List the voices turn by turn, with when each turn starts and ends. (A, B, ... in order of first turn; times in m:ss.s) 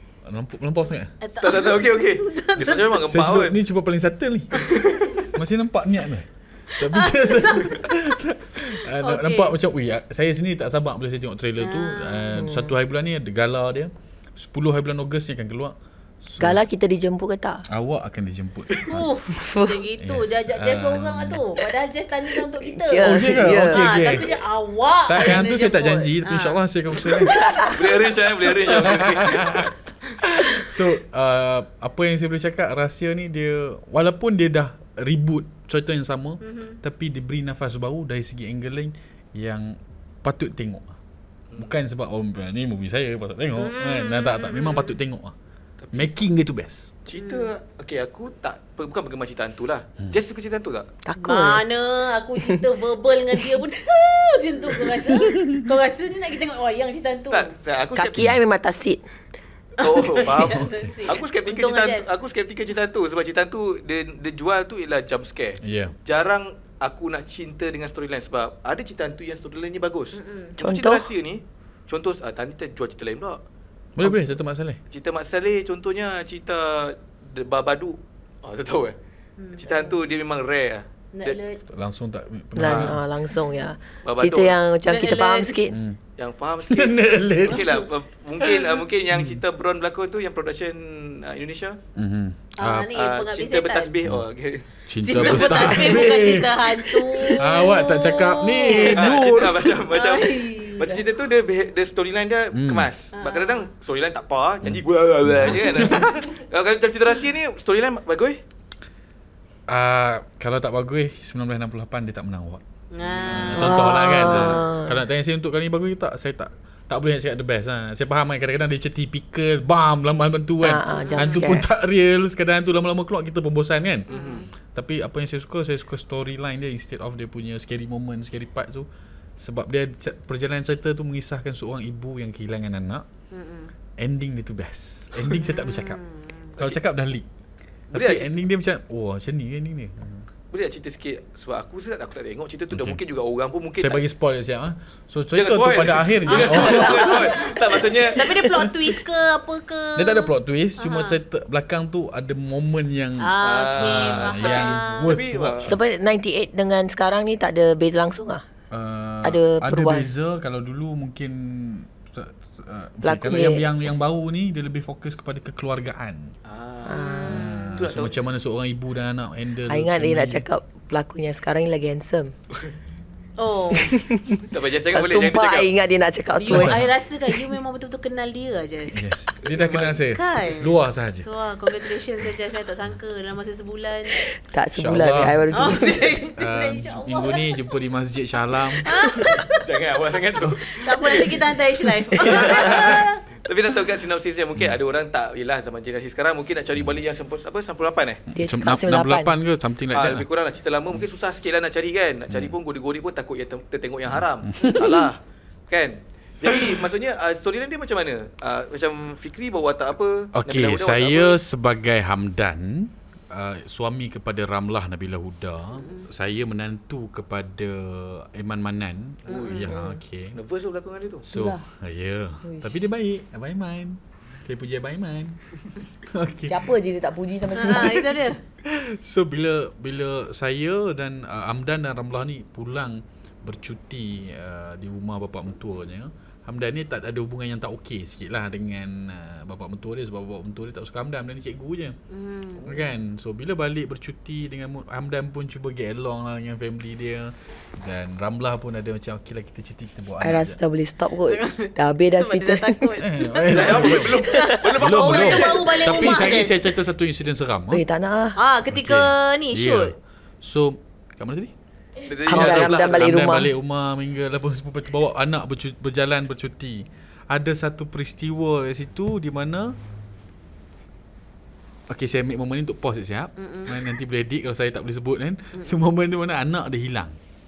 0:00.2-0:01.1 A
0:01.2-0:03.0 B
0:01.4-0:03.6 C
0:03.0-0:04.7 A
0:04.6-0:05.3 B
0:04.7-0:05.0 C
0:05.3-0:16.6 A
0:06.8-0:07.8 B
0:09.0-0:09.6 B
0:11.6-0:12.4 B
0:12.3-0:12.7 D
0:16.4-0:17.6 D
0:17.7-0:19.2 A
0:18.9-0:28.1 B
0:19.3-0:19.9 D
0:20.0-0:21.4 A
0:22.6-0:23.9 D
0:23.0-0:24.4 A
0:25.0-0:27.5 A
0:27.3-0:27.7 D
0:27.6-0:29.7 C
0:28.5-0:41.0 A
0:36.4-0:36.8 B
0:41.6-0:45.3 A
0:43.6-0:45.0 B
0:45.8-0:46.1 C
0:45.9-0:46.9 A
0:47.0-0:50.9 C
0:47.2-0:47.5 B
0:51.0-0:51.6 D
0:51.2-0:57.5 B
0:57.3-0:58.3 C
0:58.0-0:59.0 D
0:59.8-1:02.1 B
0:59.8-1:13.4 C
1:00.3-1:01.1 A
1:05.6-1:05.9 A
1:10.1-1:10.5 B
1:10.6-1:11.1 D
1:13.9-1:14.8 A
1:14.9-1:19.0 C
1:19.4-1:20.0 B
1:19.6-1:21.4 C
1:21.1-1:21.6 B
1:21.7-1:23.0 A
1:22.6-1:25.8 D
1:22.6-1:23.0 C
1:24.0-1:24.6 C
1:24.9-1:25.6 B
1:25.7-1:26.0 A
1:26.2-1:31.8 C
1:26.6-1:27.7 A
1:27.5-1:27.8 B
1:28.4-1:29.4 A
1:31.9-1:32.9 A
1:32.6-1:33.9 B
1:32.7-1:36.0 C
1:34.9-1:39.8 A
1:35.0-1:39.2 B
1:38.7-1:48.4 C
1:39.9-1:41.0 B
1:42.5-1:42.9 A
1:43.1-1:43.7 B
1:44.6-1:46.2 A
1:49.7-1:52.6 A
1:52.9-1:53.9 B
1:53.0-1:53.7 C
1:53.1-2:04.1 A
1:53.5-1:54.9 D
2:00.6-2:01.6 D
2:00.9-2:01.5 B
2:04.1-2:04.5 C
2:04.1-2:04.5 B
2:04.7-2:13.0 A
2:13.3-2:13.7 B
2:14.0-2:16.0 A
2:15.2-2:16.6 B
2:16.6-2:17.2 A
2:17.9-2:20.2 A
2:17.9-2:18.3 C
2:20.5-2:24.0 C
2:22.7-2:23.0 A
2:23.8-2:27.5 A
2:25.3-2:28.6 C
2:26.3-2:31.2 B
2:28.2-2:28.9 A
2:30.0-2:35.8 A
2:33.2-2:35.2 B
2:33.4-2:35.7 C
2:35.6-2:38.4 D
2:38.7-2:46.3 A
2:39.2-2:40.1 D
2:43.0-2:43.7 D
2:46.4-2:48.1 C
2:46.8-2:47.4 D
2:47.0-2:47.7 B
2:47.3-2:50.4 A
2:49.7-2:52.3 D
2:53.4-2:54.0 B
2:53.7-2:56.8 D
2:54.4-2:55.7 C
2:56.3-2:59.0 B
2:56.5-2:56.9 A
2:58.9-3:01.3 A
2:59.4-3:00.0 C
3:00.0-3:04.2 B
3:04.2-3:06.2 D
3:04.7-3:09.1 A
3:05.5-3:07.6 B
3:08.5-3:09.6 B
3:09.6-3:10.8 C
3:10.6-3:13.2 B
3:12.2-3:18.2 C
3:12.2-3:13.0 A
3:18.3-3:20.2 A
3:18.4-3:19.3 D
3:19.9-3:31.4 C
3:22.3-3:22.5 A
3:24.1-3:24.9 A
3:30.3-3:40.4 A
3:35.7-3:36.1 B
3:39.3-3:39.7 C
3:39.3-3:39.8 B
3:39.7-3:40.0 D
3:40.3-3:41.3 C
3:41.2-3:45.4 A
3:41.3-3:41.6 D
3:42.4-3:42.7 D
3:46.0-3:46.7 A
3:46.5-3:48.1 D
3:47.5-3:48.4 B
3:48.6-4:02.0 A
4:02.1-4:02.8 B
4:02.6-4:10.6 A
4:10.2-4:12.9 D
4:11.2-4:16.6 B
4:13.0-4:14.2 A
4:13.4-4:16.4 C
4:14.3-4:14.6 D
4:14.8-4:17.8 A
4:17.7-4:18.4 D
4:18.4-4:19.9 B
4:18.7-4:21.5 A
4:22.0-4:23.1 C
4:22.2-4:23.5 D
4:22.3-4:29.8 A
4:31.9-4:37.2 A
4:33.4-4:33.8 B